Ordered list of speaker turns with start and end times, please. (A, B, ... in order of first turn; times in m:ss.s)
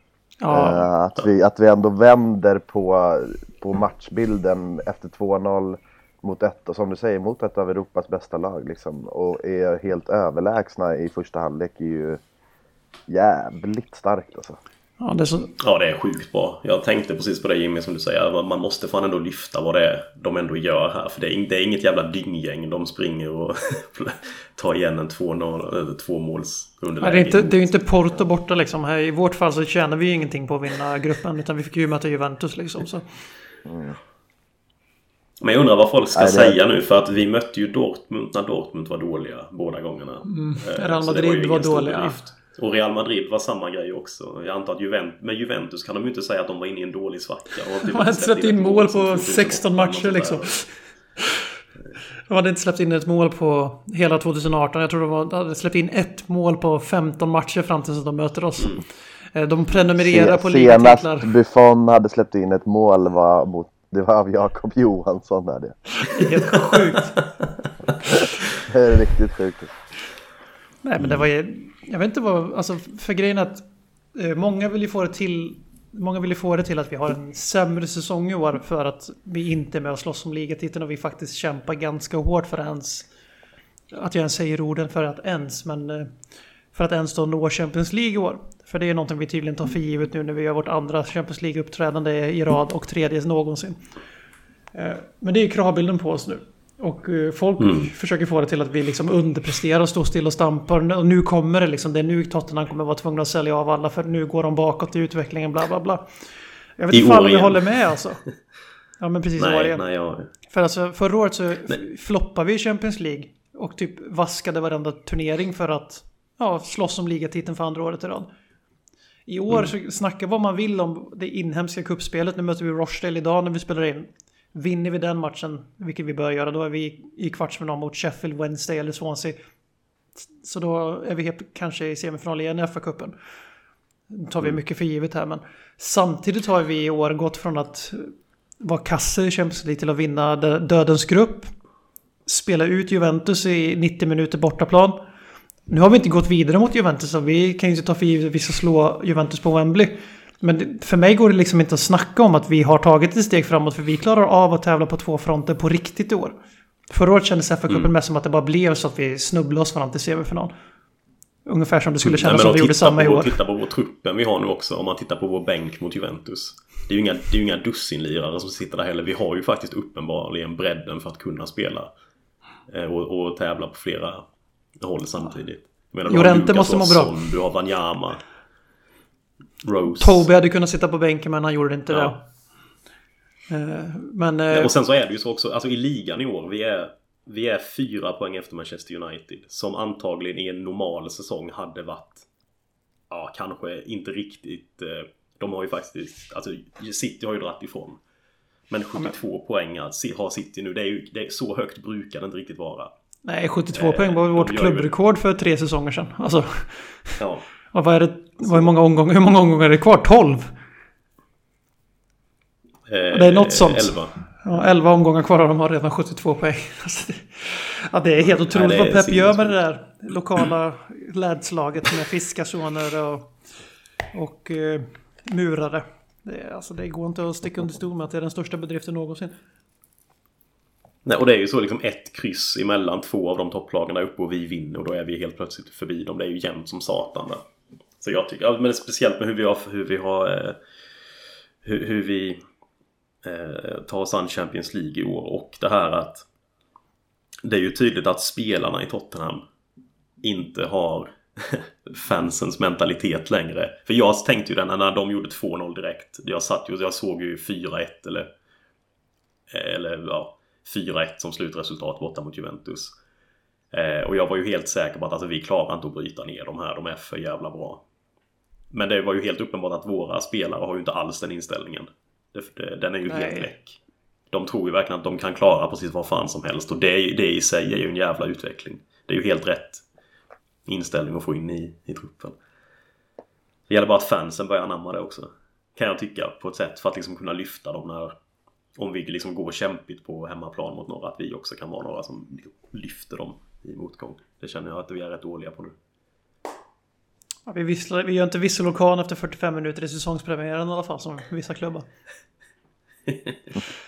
0:00.4-0:00.9 A
0:00.5-0:12.2 B
0:13.1-0:14.6 B
0:15.0-0:15.5 A
0:15.6-0:27.7 C
0:27.0-0:33.0 A
0:33.6-0:34.0 B
0:35.4-0:50.5 C
0:36.1-0:36.6 B
0:40.3-0:42.2 A
0:47.9-0:50.7 A
0:52.3-0:58.8 A
0:59.3-1:01.3 A
0:59.9-1:05.7 B
1:06.1-1:07.2 A
1:08.6-1:09.7 B
1:10.8-1:23.1 A
1:23.9-1:26.1 A
1:26.7-1:33.8 A
1:34.7-1:46.1 A
1:37.6-1:37.9 C
1:46.8-1:48.2 A
1:46.9-1:47.7 C
1:49.0-1:49.8 A
1:49.4-1:50.3 C
1:50.5-1:58.3 A
1:59.3-2:09.4 A
2:10.4-2:13.1 A
2:14.1-2:21.5 A
2:22.2-2:25.0 A
2:25.7-2:36.4 A
2:36.9-2:40.5 A
2:41.4-2:43.3 A
2:42.0-2:51.9 C
2:52.7-2:54.2 C
2:54.8-2:58.2 C
2:56.1-2:57.1 A
2:59.6-3:00.2 C
2:59.9-3:02.2 A
3:01.9-3:02.2 C
3:03.5-3:04.7 A
3:04.5-3:12.2 C
3:13.1-3:18.0 C
3:18.7-3:22.9 C
3:23.2-3:27.1 A
3:23.7-3:24.9 C
3:27.2-3:27.4 C
3:27.7-3:30.5 A
3:28.4-3:28.7 C
3:32.9-3:34.1 C
3:33.1-3:43.3 A
3:38.2-3:39.6 C
3:44.1-3:49.3 A
3:51.0-3:57.4 C
3:58.0-4:00.6 C
4:01.6-4:02.4 C
4:03.2-4:06.2 C
4:07.4-4:09.4 C
4:10.2-4:18.3 C
4:19.5-4:22.9 C
4:23.7-4:27.8 C
4:28.7-4:33.8 C
4:33.1-4:33.5 A
4:34.3-4:39.8 C
4:40.6-4:42.4 C
4:43.7-4:48.1 C
4:48.8-4:55.7 C
4:57.5-5:01.8 A